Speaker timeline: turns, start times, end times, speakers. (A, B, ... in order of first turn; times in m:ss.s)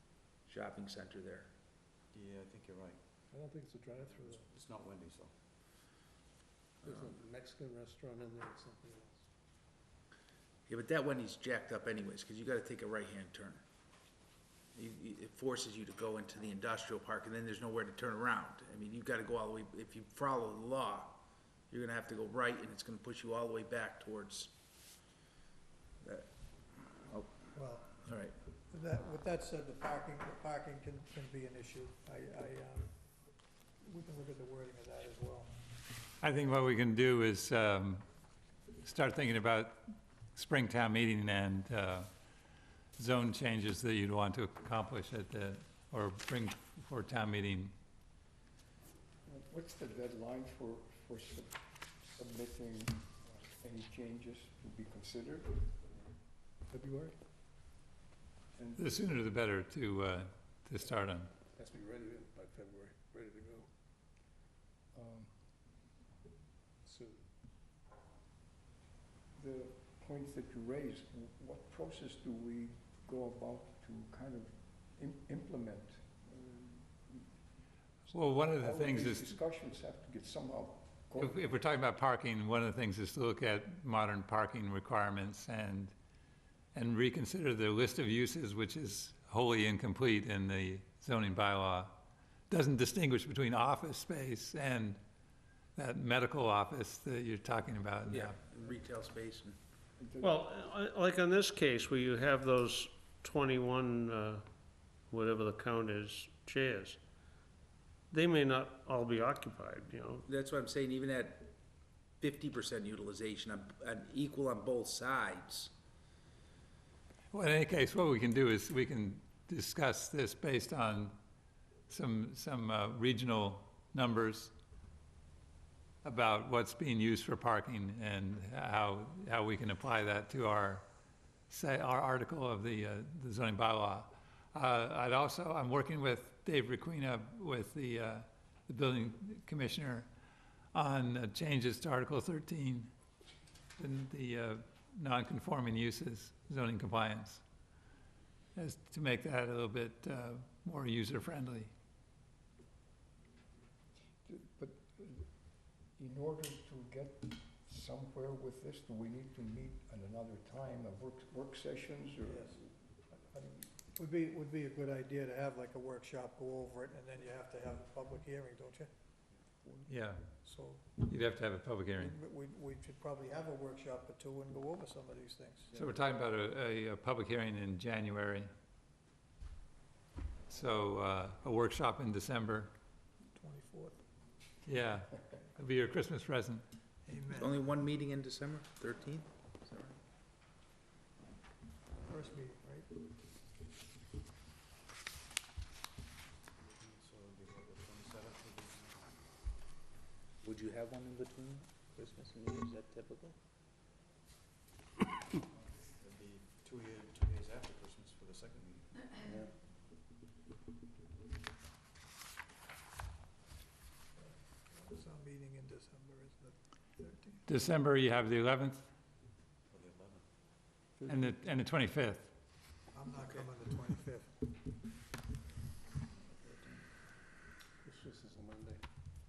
0:00.4-0:01.5 A
0:02.1-0:03.0 B
0:03.3-0:04.5 C
0:04.2-0:05.3 B
0:06.8-0:09.2 C
0:10.7-0:13.6 A
0:14.7-0:24.5 A
0:26.0-0:26.3 A
0:27.0-0:27.4 A
0:27.5-0:27.9 D
0:28.0-0:28.4 A
0:28.7-0:32.9 D
0:33.8-0:35.5 D
0:36.2-0:38.0 E
0:38.8-0:39.8 E
0:40.3-0:42.1 E
0:43.0-0:47.7 E
0:49.2-0:55.8 F
0:56.7-0:57.2 F
0:58.5-0:59.1 F
0:58.8-1:01.3 E
1:01.4-1:03.7 C
1:04.9-1:05.3 F
1:06.8-1:07.2 C
1:09.3-1:17.3 F
1:18.1-1:21.5 F
1:18.1-1:19.3 E
1:21.2-1:25.9 E
1:26.7-1:31.9 E
1:32.5-1:35.0 E
1:35.8-1:38.4 E
1:38.1-1:39.6 A
1:40.0-1:40.3 F
1:40.2-1:44.5 G
1:45.1-1:47.0 G
1:48.1-1:50.3 G
1:50.3-1:51.5 A
1:52.2-1:55.7 A
1:57.3-2:01.2 E
2:01.9-2:04.5 E
2:06.0-2:10.8 E
2:11.5-2:20.1 E
2:20.7-2:22.9 E
2:23.8-2:27.4 E
2:28.5-2:31.7 E
2:34.2-2:43.7 F
2:42.2-2:42.6 D
2:43.9-2:48.9 D
2:49.9-2:50.2 E
2:50.4-2:50.8 D
2:51.0-2:52.1 E
2:51.9-2:55.8 D
2:55.7-2:58.5 E
3:00.5-3:02.7 E
3:03.3-3:04.0 D
3:04.6-3:06.6 E
3:07.0-3:07.5 D
3:07.4-3:10.0 A
3:12.0-3:12.9 D
3:16.7-3:19.0 B
3:20.4-3:23.3 A
3:25.8-3:28.9 B
3:34.6-3:37.4 D
3:37.5-3:38.8 E
3:39.7-3:40.2 B
3:41.0-3:41.3 F
3:41.1-3:42.3 E
3:42.9-3:44.4 D
3:47.8-3:48.8 C